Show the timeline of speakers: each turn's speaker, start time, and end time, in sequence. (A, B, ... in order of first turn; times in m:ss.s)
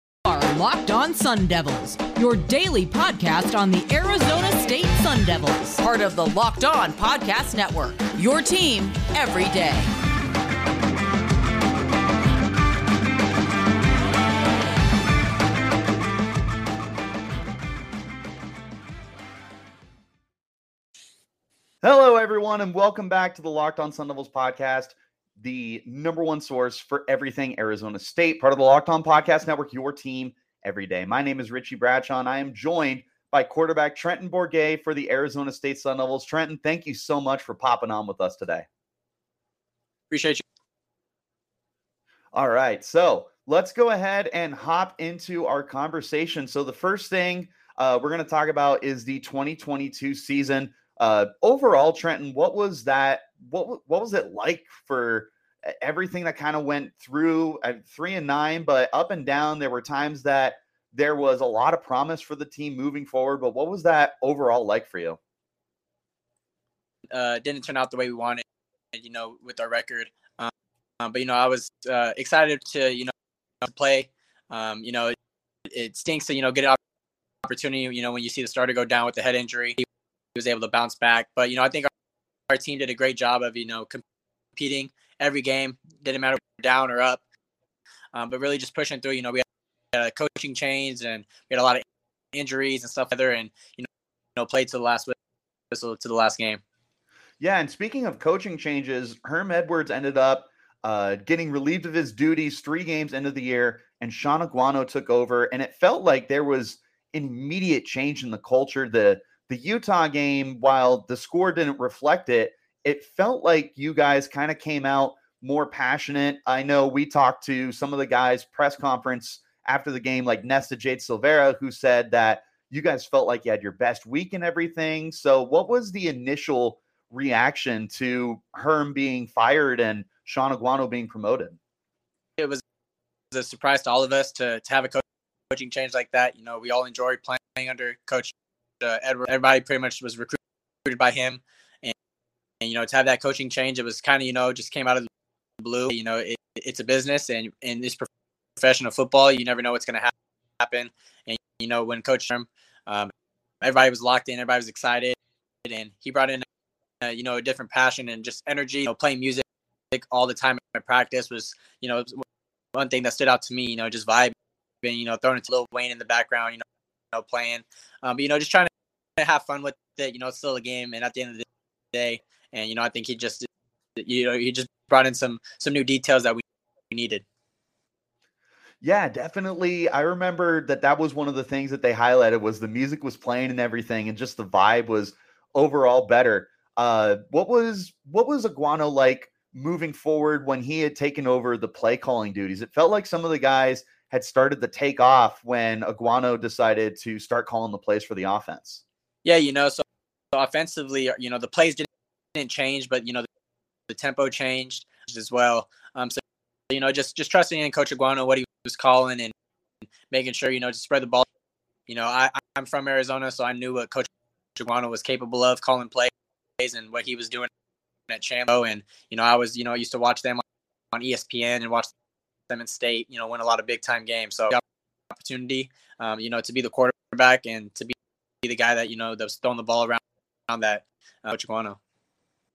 0:00.3-0:09.9 A
0:21.8-0:38.7 B
0:40.1-0:40.4 C
0:42.3-1:05.2 B
1:07.1-1:08.4 C
1:08.9-1:15.2 C
1:15.7-1:16.8 C
1:17.4-1:19.8 C
1:20.4-1:21.9 C
1:22.5-1:24.0 C
1:24.6-1:27.2 C
1:28.1-1:35.1 C
1:35.7-1:36.6 C
1:37.4-2:11.6 B
2:13.3-2:21.9 C
2:22.6-2:25.1 C
2:25.6-2:36.4 C
2:37.0-2:42.2 C
2:42.8-2:57.2 C
2:58.8-3:18.8 B
3:19.2-3:23.3 C
3:23.9-3:29.3 C
3:30.1-3:31.2 C
3:31.9-3:37.5 C
3:38.1-3:40.4 C
3:40.9-3:41.9 C
3:42.5-3:44.6 C
3:45.1-3:51.8 C